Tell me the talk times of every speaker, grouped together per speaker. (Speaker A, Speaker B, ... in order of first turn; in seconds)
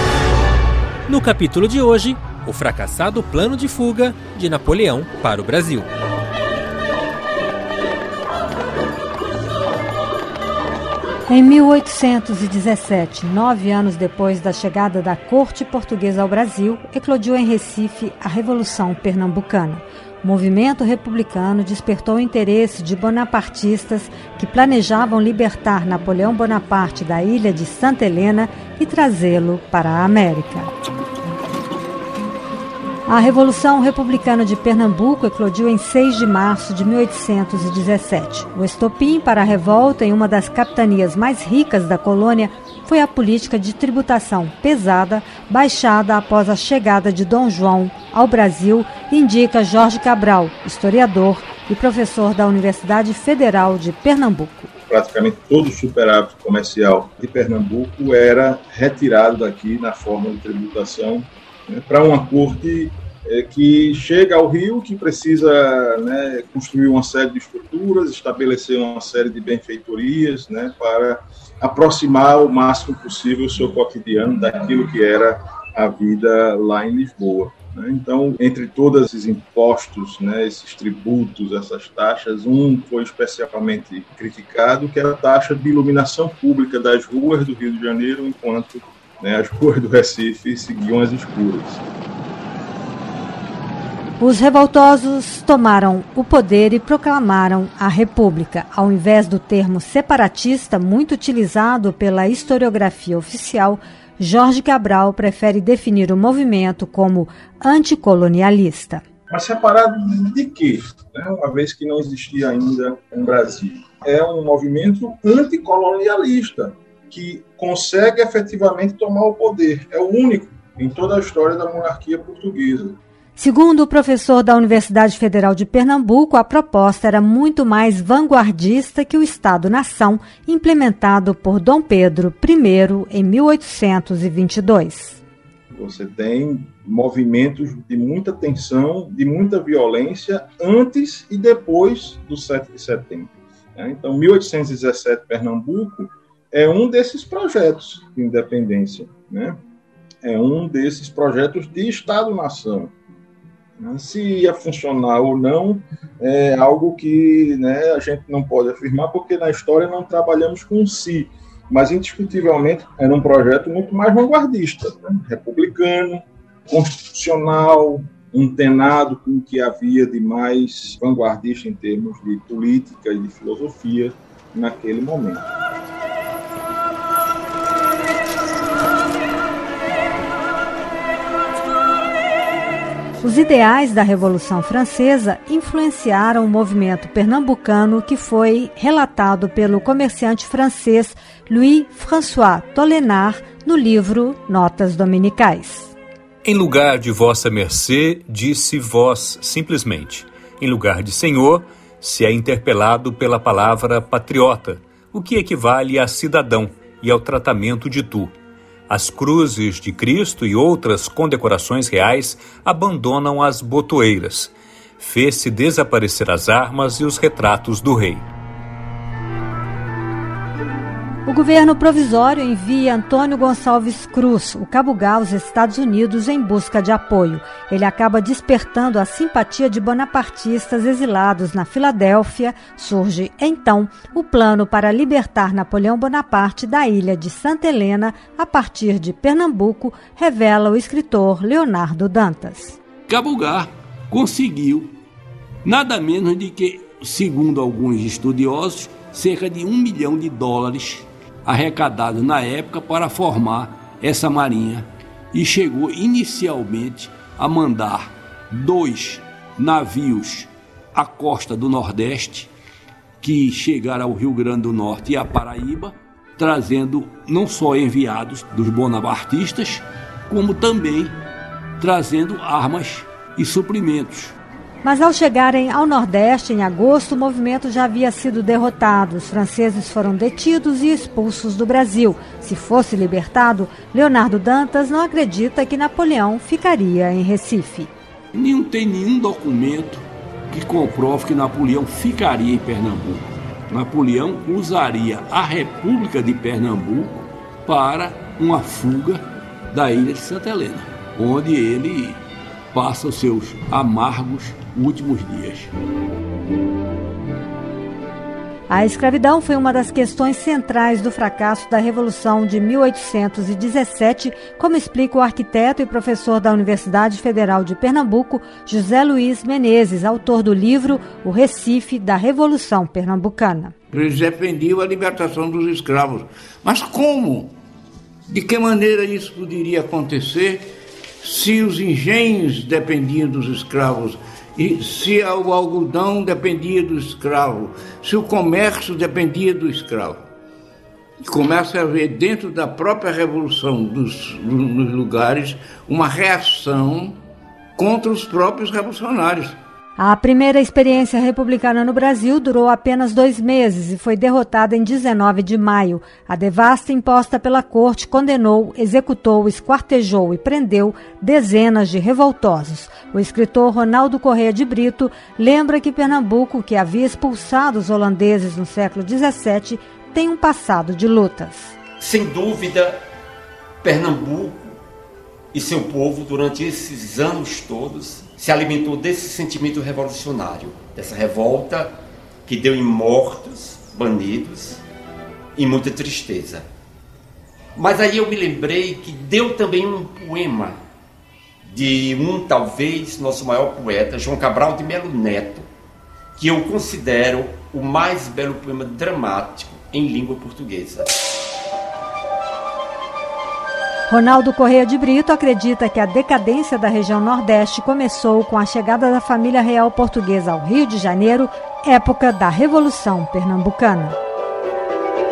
Speaker A: 1.1-5.9
Speaker B: 11.3-30.7, 33.1-54.7, 94.2-109.0, 123.4-135.2, 183.2-195.9, 221.3-242.8, 274.8-287.9, 308.7-323.7, 350.0-371.8, 404.1-414.2
Speaker C: 54.9-91.8, 109.3-123.0, 135.7-149.6, 150.2-152.9, 153.8-175.4
Speaker D: 196.4-208.3, 208.9-218.3
Speaker E: 243.1-244.9, 245.6-262.5, 263.2-271.2, 271.8-274.4, 288.3-302.2, 302.7-305.7
Speaker F: 323.9-327.5, 328.3-330.7, 331.2-340.2, 341.2-347.2, 347.8-349.6
Speaker G: 372.0-372.9, 373.8-374.7, 375.5-381.9, 382.5-384.8, 385.6-386.6, 387.8-390.8, 391.6-395.7, 396.4-401.1